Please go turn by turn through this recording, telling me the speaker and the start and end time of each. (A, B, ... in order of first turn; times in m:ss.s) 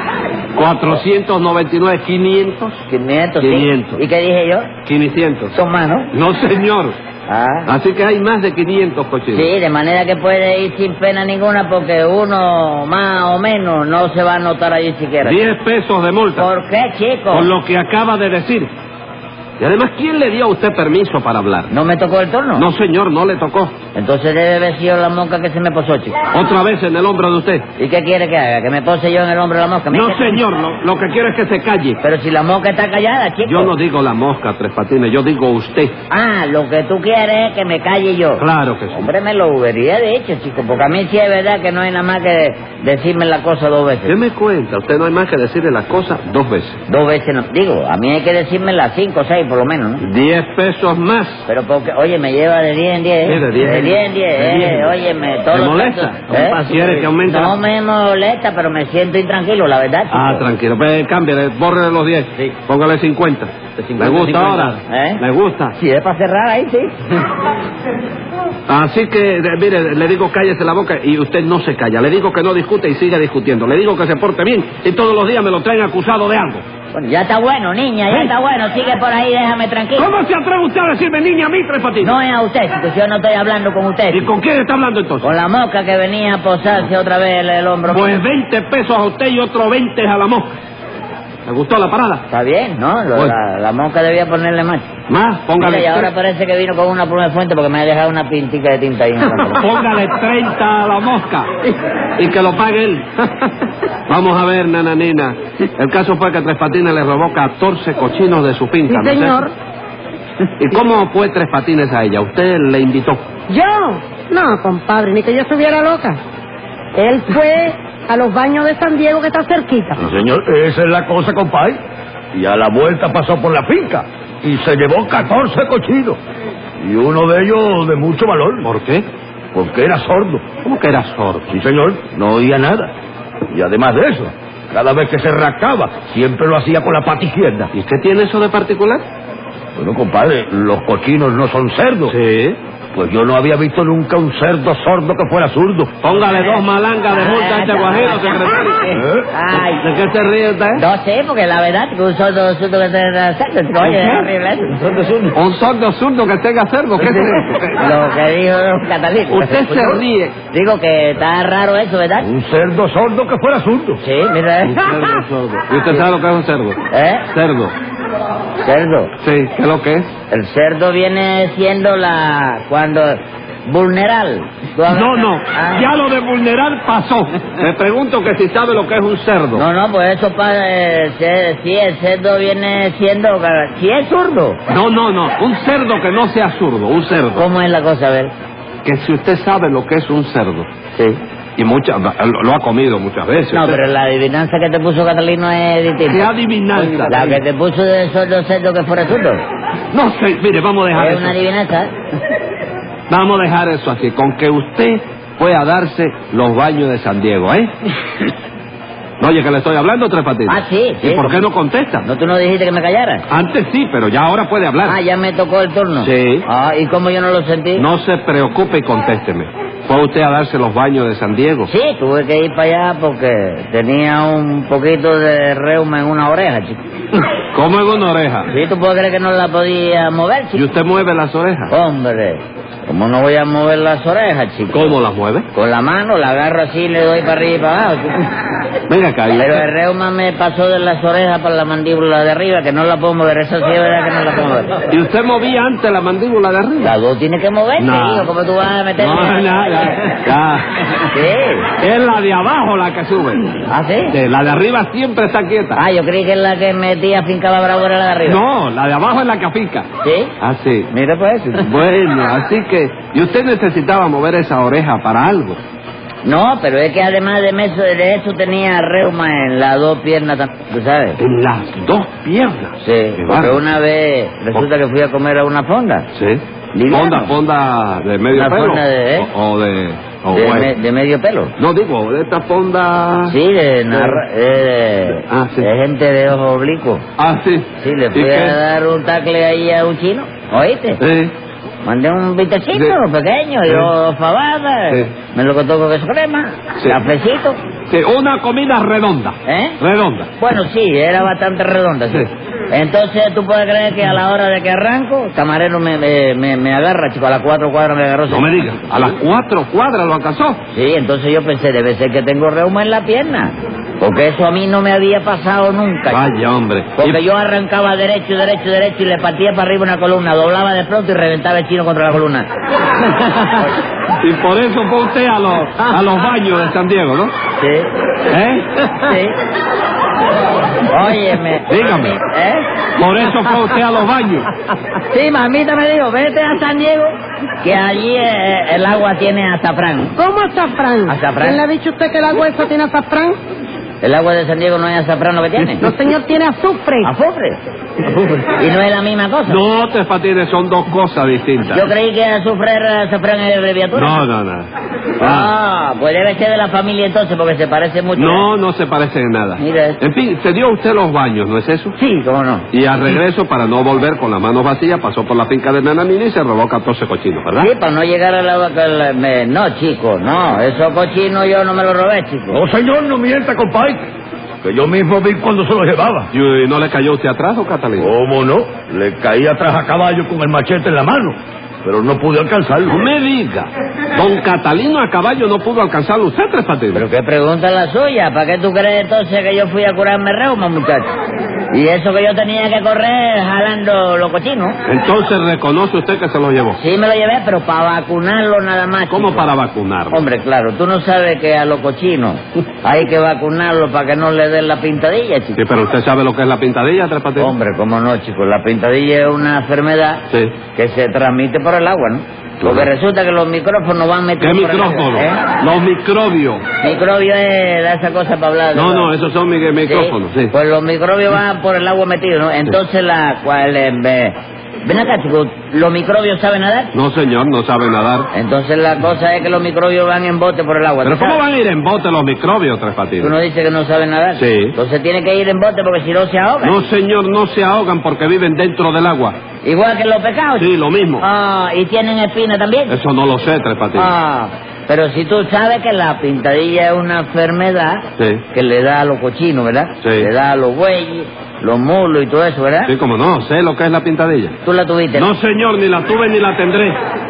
0:00.6-0:02.8 A
0:02.9-0:04.7 B
0:03.4-0:04.0 A
0:04.8-0:05.5 A
0:05.5-0:06.1 B
0:06.1-0:07.0 A
0:07.3-0:07.7 B
0:07.7-0:09.5 A
0:09.3-0:15.4 B
0:15.2-0:16.5 A
0:16.4-0:17.5 B
0:17.3-0:18.7 A
0:19.6-0:21.7 A
0:21.7-0:22.7 B
0:22.6-0:23.7 A
0:24.0-0:26.2 B
0:26.3-0:27.7 A
0:27.8-0:30.4 B
0:29.9-0:32.0 A
0:32.0-0:33.7 B
0:33.4-0:36.0 A
0:36.1-0:44.2 B
0:38.4-0:39.1 A
0:44.1-0:46.8 A
0:46.9-0:50.0 B
0:50.0-0:51.5 A
0:51.5-1:00.5 B
0:53.2-0:55.0 A
0:55.5-0:57.6 A
1:00.1-1:05.8 A
1:03.8-1:05.2 B
1:05.8-1:07.1 B
1:08.7-1:16.6 A
1:16.9-1:20.1 B
1:20.0-1:22.2 A
1:22.0-1:24.3 B
1:24.1-1:25.3 A
1:25.2-1:28.2 B
1:27.9-1:30.5 A
1:31.5-1:32.2 A
1:32.3-1:34.9 B
1:35.1-1:36.1 A
1:35.6-1:39.6 B
1:39.5-1:41.5 A
1:42.2-1:43.5 A
1:44.1-1:49.4 A
1:48.9-1:49.5 C
1:50.6-1:53.2 A
1:53.5-1:56.2 C
1:57.0-2:00.0 C
2:00.0-2:01.8 D
2:02.3-2:06.2 D
2:06.8-2:08.7 D
2:08.6-2:09.1 A
2:09.5-2:10.5 D
2:10.6-2:11.5 A
2:11.5-2:12.9 D
2:13.5-2:17.7 D
2:17.7-2:19.0 A
2:19.8-2:22.2 D
2:22.1-2:22.6 A
2:23.0-2:25.9 D
2:26.0-2:28.9 A
2:26.1-2:29.9 B
2:28.9-2:29.3 D
2:29.5-2:30.8 A
2:30.8-2:35.0 B
2:33.8-2:34.3 A
2:34.8-2:35.3 D
2:35.4-2:38.0 A
2:37.0-2:42.3 B
2:39.3-2:40.4 A
2:42.2-2:44.0 D
2:44.0-2:45.2 B
2:44.6-2:46.8 A
2:46.9-2:47.3 B
2:47.3-2:47.8 A
2:48.6-2:49.1 B
2:49.2-2:50.1 A
2:50.3-2:55.9 B
2:54.9-2:59.6 A
2:59.5-3:04.6 B
3:04.7-3:07.4 A
3:07.4-3:08.3 B
3:08.8-3:10.7 A
3:10.9-3:11.2 B
3:11.6-3:13.8 A
3:13.5-3:19.4 B
3:16.1-3:17.4 A
3:19.9-3:21.4 A
3:20.9-3:21.9 B
3:23.1-3:27.7 A
3:29.2-3:32.0 A
3:30.5-3:31.4 B
3:32.0-3:33.2 B
3:33.3-3:35.0 A
3:34.8-3:37.9 B
3:36.0-3:36.4 A
3:37.8-3:41.7 A
3:41.7-3:46.8 B
3:47.5-3:48.5 A
3:48.5-3:50.7 B
3:50.6-3:51.7 A
3:51.7-3:55.0 B
3:54.7-3:55.5 A
3:55.5-3:58.3 B
3:58.9-3:59.7 A
3:59.3-4:04.8 B
4:04.9-4:07.0 A
4:06.8-4:10.2 B
4:07.8-4:08.3 A
4:09.0-4:11.1 A
4:11.1-4:11.7 B
4:11.8-4:15.8 A
4:13.7-4:14.2 B
4:15.8-4:18.4 B
4:18.3-4:19.9 A
4:20.0-4:20.3 B
4:20.4-4:20.9 A
4:20.9-4:21.7 B
4:21.6-4:25.6 A
4:26.2-4:31.2 B
4:31.2-4:33.6 A
4:32.8-4:36.1 B
4:36.1-4:40.7 A
4:36.7-4:37.3 B
4:38.3-4:39.3 B
4:40.3-4:41.5 B
4:41.6-4:43.4 A
4:43.3-4:47.0 B
4:43.9-4:44.2 A
4:45.3-4:45.7 A
4:47.2-4:48.6 A
4:47.8-4:51.0 B
4:51.0-4:51.3 A
4:51.8-4:57.6 B
4:57.9-5:00.3 A
4:59.5-4:59.8 B
5:00.4-5:09.1 B
5:08.3-5:10.6 A
5:10.7-5:16.4 B
5:16.1-5:17.2 A
5:17.0-5:22.5 B
5:23.1-5:23.6 A
5:24.2-5:27.3 A
5:27.6-5:27.9 B
5:28.3-5:29.2 A
5:29.0-5:29.4 B
5:30.9-5:32.7 B
5:31.7-5:32.2 A
5:33.0-5:34.5 A
5:35.1-5:40.1 B
5:40.2-5:43.4 C
5:41.1-5:41.6 B
5:44.0-5:45.9 B
5:45.6-5:47.1 C
5:47.0-5:49.6 B
5:49.5-5:51.9 A
5:51.7-5:54.2 B
5:53.9-5:55.5 A
5:55.2-5:58.5 B
5:58.2-6:02.0 A
5:59.6-6:00.0 B
6:02.0-6:02.7 B
6:02.7-6:07.7 A
6:07.6-6:12.6 B
6:12.5-6:14.0 D
6:14.6-6:16.3 D
6:16.3-6:18.1 A
6:18.0-6:23.1 D
6:22.8-6:27.0 A
6:26.9-6:31.1 B
6:31.7-6:34.8 B
6:34.9-6:36.8 A
6:36.8-6:39.5 B
6:39.1-6:40.3 A
6:40.1-6:45.6 B
6:45.6-6:47.6 A
6:47.4-6:50.2 B
6:50.3-6:50.6 A
6:50.7-6:55.4 B
6:52.6-6:52.9 A
6:54.4-6:56.6 A
6:56.8-6:59.1 B
6:58.7-7:00.5 A
6:59.8-7:06.9 B
7:06.9-7:08.3 A
7:08.3-7:11.4 B
7:11.0-7:13.3 A
7:13.2-7:16.8 B
7:14.4-7:14.8 A
7:16.6-7:19.4 A
7:19.6-7:20.7 B
7:20.6-7:21.3 A
7:21.2-7:23.0 B
7:22.9-7:24.1 A
7:24.0-7:32.9 B
7:30.0-7:30.3 A
7:32.9-7:34.6 A
7:34.6-7:35.3 B
7:35.1-7:37.0 A